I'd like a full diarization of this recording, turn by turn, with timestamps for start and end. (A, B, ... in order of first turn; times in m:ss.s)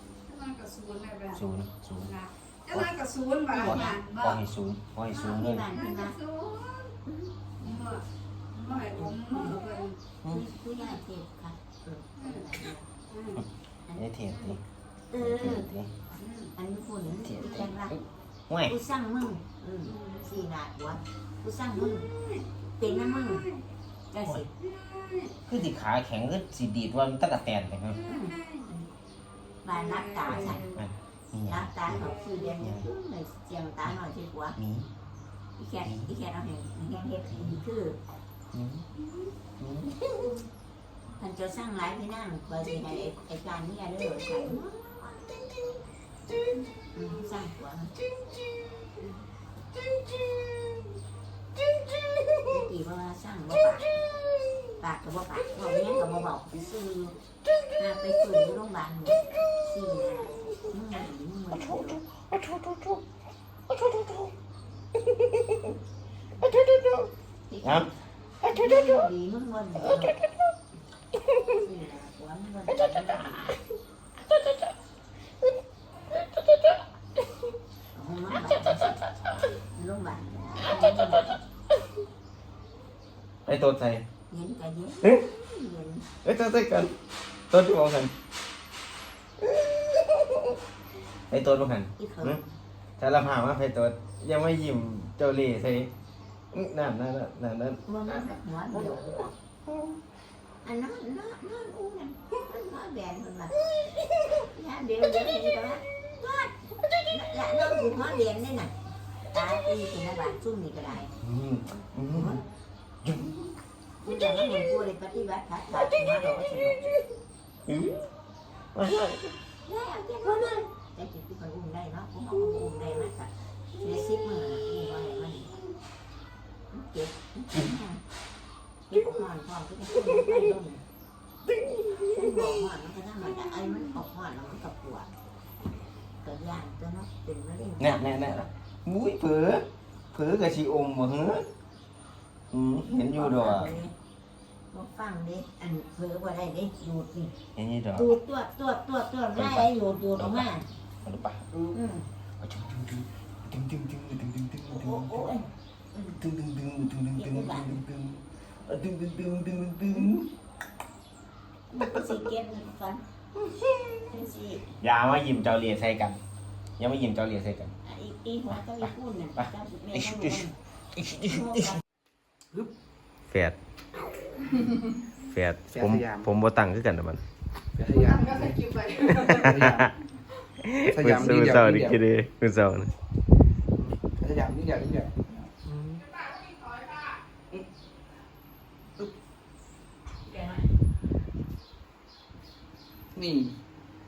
0:00.3-0:01.4 A
0:01.3-0:02.1 B
0:02.0-0:04.4 A
0:03.5-0:04.0 C
0:03.6-0:05.7 B
0:05.1-0:06.2 C
0:05.7-0:07.0 A
0:07.1-0:07.9 C
0:07.6-0:10.0 A
0:08.7-0:09.6 C
0:10.3-0:12.9 C
0:13.1-0:13.4 A
0:14.0-0:14.6 B
0:15.1-0:15.7 C
0:15.2-0:15.9 B
0:16.2-0:16.5 A
0:16.6-0:18.0 C
0:17.1-0:18.0 B
0:18.5-0:18.7 B
0:18.7-0:22.1 C
0:19.9-0:20.2 A
0:21.9-0:23.6 A
0:22.8-0:23.5 C
0:24.1-0:24.5 C
0:24.6-0:25.3 A
0:25.5-0:28.0 B
0:28.0-0:28.7 A
0:28.1-0:28.9 C
0:29.6-0:30.7 C
0:29.7-0:30.8 A
0:30.3-0:32.9 B
0:31.5-0:34.6 C
0:34.6-0:34.9 B
0:35.6-0:38.0 C
0:35.8-0:36.1 B
0:37.3-0:37.6 B
0:38.5-0:38.9 B
0:39.6-0:40.4 B
0:41.2-0:45.2 C
0:46.9-0:47.9 C
0:49.9-0:50.8 B
0:51.8-0:52.4 B
0:52.5-0:54.0 C
0:54.8-0:57.2 C
0:57.8-1:02.0 C
1:01.7-1:03.0 B
1:03.7-1:04.3 B
1:05.0-1:05.7 B
1:06.4-1:07.1 B
1:07.5-1:07.9 C
1:07.6-1:07.9 B
1:08.4-1:10.2 C
1:11.4-1:13.5 C
1:17.9-1:19.0 C
1:19.7-1:21.4 C
1:23.5-1:24.0 B
1:24.3-1:26.1 C
1:26.2-1:27.0 B
1:27.5-1:28.1 B
1:29.4-1:30.5 B
1:31.3-1:32.4 B
1:32.0-1:32.4 C
1:33.0-1:35.9 B
1:36.5-1:39.3 B
1:37.8-1:39.3 C
1:40.6-1:43.6 C
1:44.3-1:46.5 C
1:47.1-1:48.7 C
1:49.3-1:51.1 C
1:51.2-1:52.4 B
1:52.1-1:52.4 C
1:53.0-1:53.4 B
1:54.0-1:56.9 C
1:57.7-1:58.0 B
1:58.7-1:59.4 B
1:59.7-2:05.6 C
2:06.7-2:08.0 C
2:08.9-2:10.8 C
2:11.5-2:12.7 B
2:12.1-2:15.1 C
2:16.2-2:18.2 C
2:17.8-2:21.5 B
2:22.5-2:23.7 B
2:23.0-2:23.9 C
2:24.7-2:27.3 C
2:27.6-2:28.1 B
2:27.9-2:30.7 C
2:29.4-2:30.5 B
2:31.0-2:31.5 B
2:31.7-2:32.1 C
2:32.4-2:35.5 B
2:34.7-2:36.2 C
2:36.2-2:40.3 B
2:37.2-2:37.7 C
2:41.7-2:43.0 C
2:43.4-2:44.1 B
2:44.1-2:44.8 C
2:44.8-2:46.2 B
2:46.8-2:47.8 B
2:47.8-2:50.6 C
2:49.4-2:50.4 B
2:51.0-2:51.6 B
2:51.1-2:51.8 C
2:53.3-2:53.6 B
2:55.2-2:57.2 B
2:55.8-2:56.3 D
2:57.8-2:59.9 D
2:57.9-2:59.5 A
2:59.3-2:59.9 B
3:00.6-3:02.9 B
3:00.9-3:01.9 D
3:04.2-3:05.2 D
3:05.7-3:06.0 B
3:06.2-3:07.1 A
3:13.2-3:13.6 D